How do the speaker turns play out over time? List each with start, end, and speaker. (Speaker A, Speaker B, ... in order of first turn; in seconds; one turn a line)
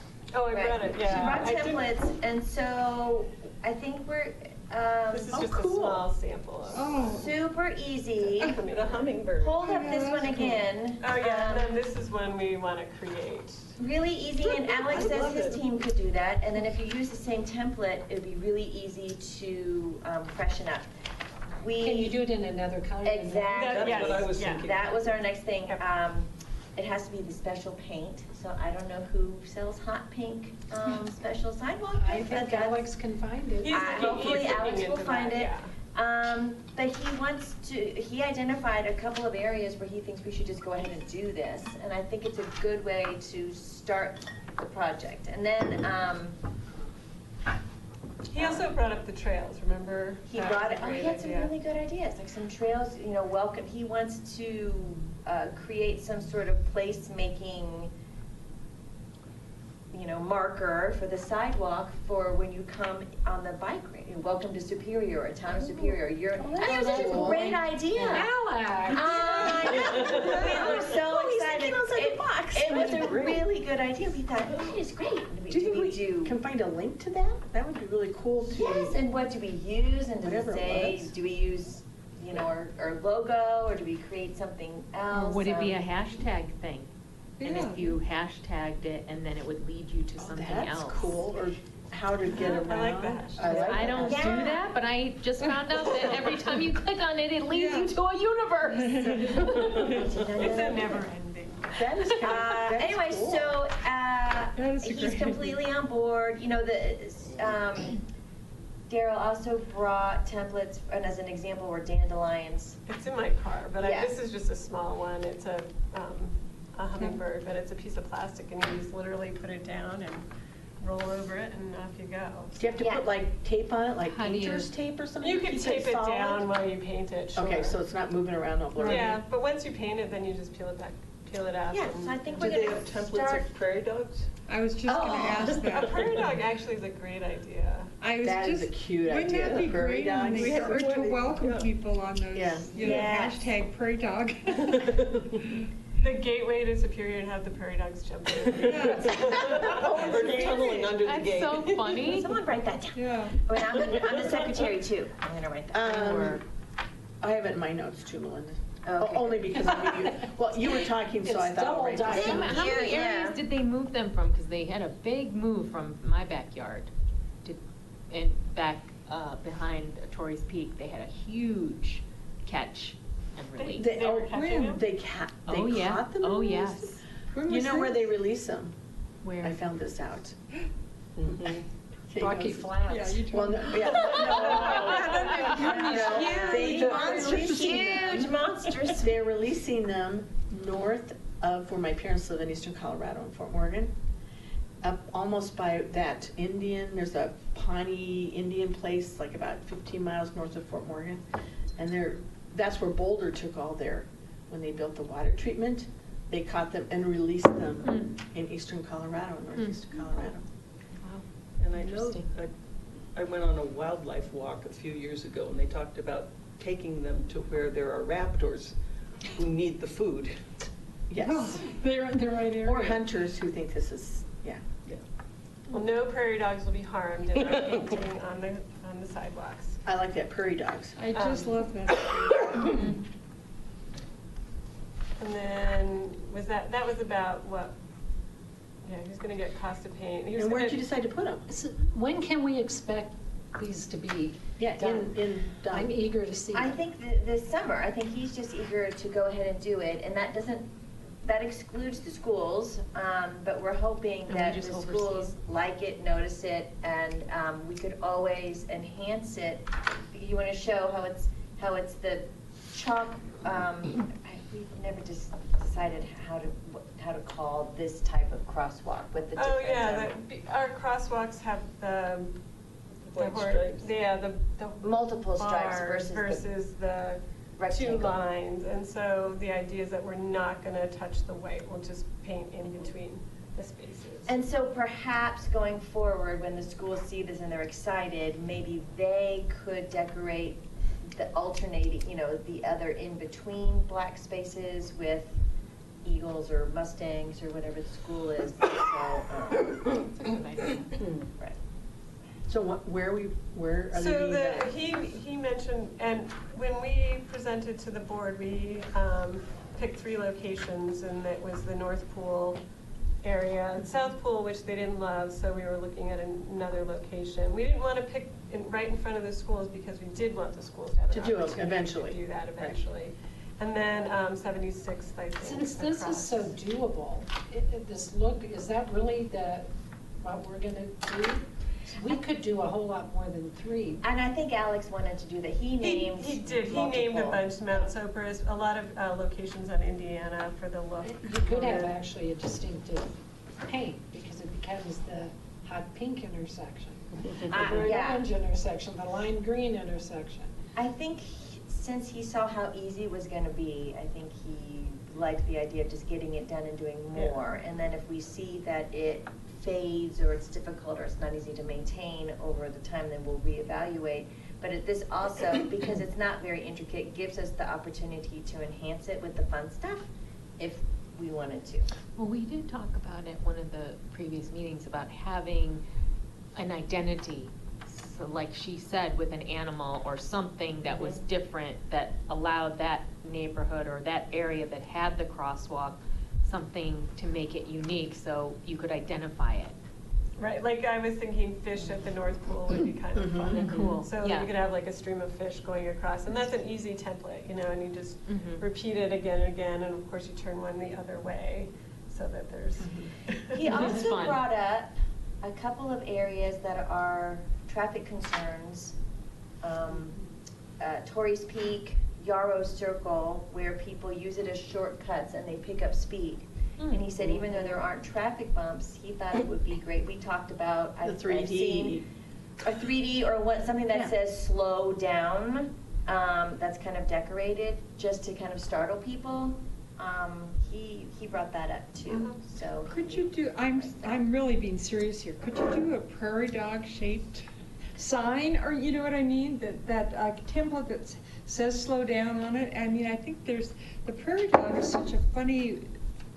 Speaker A: 0.3-1.9
Speaker B: 0.5-5.4
Speaker A: 5.1-7.1
Speaker C: 5.3-6.0
Speaker D: 6.7-7.4
Speaker B: 7.0-8.6
Speaker A: 8.2-9.2
Speaker E: 8.6-10.6
Speaker B: 9.4-11.8
Speaker D: 9.6-10.5
Speaker A: 11.0-13.8
Speaker B: 13.8-20.9
Speaker E: 14.4-15.7
Speaker B: 21.6-22.2
Speaker F: 21.8-23.6
Speaker B: 23.0-32.9
Speaker A: 23.5-24.7
Speaker E: 23.6-24.9
Speaker F: 31.9-34.4
Speaker A: 33.6-35.7
Speaker B: 33.6-46.4
Speaker A: 48.3-51.5
Speaker B: 48.3-48.7
Speaker B: 50.3-57.9
Speaker B: 59.9-68.3
Speaker C: 66.4-67.6
Speaker G: 66.6-68.2
Speaker F: 66.7-70.1
Speaker B: 68.8-76.4
Speaker C: 69.2-73.3
Speaker E: 69.9-70.4
Speaker E: 72.6-73.5
Speaker C: 75.5-79.0
Speaker B: 78.5-85.8
Speaker C: 80.2-81.1
Speaker G: 85.1-86.9
Speaker D: 87.4-88.0
Speaker G: 87.4-91.2
Speaker C: 90.2-94.5
Speaker A: 92.3-94.1
Speaker G: 93.4-99.5
Speaker B: 94.0-94.7
Speaker D: 97.5-97.9
Speaker D: 98.8-99.8
Speaker A: 99.3-102.2
Speaker B: 99.4-101.1
Speaker C: 101.7-103.6
Speaker B: 102.2-108.0
Speaker D: 104.5-105.6
Speaker B: 108.9-112.8
Speaker A: 112.9-120.3
Speaker B: 113.8-114.2
Speaker A: 120.8-122.8
Speaker C: 122.6-126.5
Speaker B: 122.8-123.1
Speaker G: 124.1-124.7
Speaker A: 125.2-127.8
Speaker C: 127.3-129.2
Speaker D: 128.8-129.2
Speaker A: 128.8-132.4
Speaker B: 131.7-132.9
Speaker E: 132.3-134.3
Speaker D: 132.4-133.5
Speaker D: 134.5-136.4
Speaker C: 134.9-135.5
Speaker E: 135.2-136.3
Speaker A: 135.6-137.9
Speaker D: 138.0-145.0
Speaker C: 138.2-141.3
Speaker E: 139.3-139.8
Speaker E: 140.3-141.7
Speaker C: 142.3-143.5
Speaker A: 142.8-143.1
Speaker E: 144.8-145.4
Speaker A: 146.0-152.1
Speaker E: 148.4-151.9
Speaker D: 148.6-149.4
Speaker C: 149.9-150.9
Speaker G: 151.0-152.4
Speaker B: 152.0-156.4
Speaker D: 152.9-153.4
Speaker E: 153.9-154.4
Speaker C: 155.7-156.4
Speaker C: 157.2-162.6
Speaker B: 158.8-159.9
Speaker F: 159.5-162.7
Speaker B: 162.0-163.4
Speaker G: 162.1-166.9
Speaker G: 167.4-173.9
Speaker A: 173.6-174.8
Speaker C: 173.8-178.8
Speaker G: 175.4-178.0
Speaker G: 179.2-179.6
Speaker C: 179.4-180.4
Speaker E: 181.2-181.6
Speaker C: 182.1-188.2
Speaker F: 182.2-183.3
Speaker D: 182.9-188.4
Speaker A: 183.9-187.2
Speaker B: 186.4-189.1
Speaker C: 189.0-193.9
Speaker C: 194.8-201.2
Speaker C: 201.8-210.4
Speaker G: 207.8-208.1
Speaker G: 209.6-210.0
Speaker G: 211.0-212.3
Speaker E: 211.6-212.5
Speaker E: 213.1-218.7
Speaker E: 219.3-220.4
Speaker C: 221.1-221.8
Speaker D: 221.2-223.0
Speaker C: 222.6-224.6
Speaker A: 225.7-229.8
Speaker C: 229.8-231.0
Speaker D: 231.0-232.8
Speaker A: 231.1-231.7
Speaker A: 235.2-237.7
Speaker A: 238.8-240.8
Speaker C: 240.4-241.4
Speaker F: 241.5-246.8
Speaker C: 244.7-246.0
Speaker B: 246.5-250.7
Speaker B: 251.2-270.1
Speaker G: 254.3-255.3
Speaker A: 269.4-272.4
Speaker E: 273.1-273.9
Speaker A: 273.1-284.4
Speaker B: 274.8-276.5
Speaker B: 277.6-278.2
Speaker B: 284.2-295.4
Speaker B: 296.0-300.2
Speaker G: 300.2-300.8
Speaker C: 302.5-304.7
Speaker A: 303.9-312.6
Speaker A: 313.2-326.5
Speaker C: 321.1-322.2
Speaker F: 325.4-334.0
Speaker B: 334.0-337.9
Speaker A: 335.8-341.9
Speaker F: 341.0-350.5
Speaker E: 347.2-347.5
Speaker B: 347.5-348.3
Speaker B: 350.8-370.1
Speaker B: 370.6-371.9
Speaker G: 372.1-375.8
Speaker G: 376.6-389.8
Speaker A: 380.9-381.2
Speaker A: 390.4-403.9
Speaker C: 393.1-393.9
Speaker G: 393.5-394.5
Speaker G: 398.3-398.6
Speaker C: 402.8-403.1
Speaker B: 403.5-408.9
Speaker G: 403.9-404.4
Speaker B: 409.6-410.2
Speaker B: 410.8-422.0
Speaker G: 416.8-417.0
Speaker C: 417.2-417.8
Speaker C: 421.0-422.1
Speaker B: 422.6-434.2
Speaker D: 432.1-445.9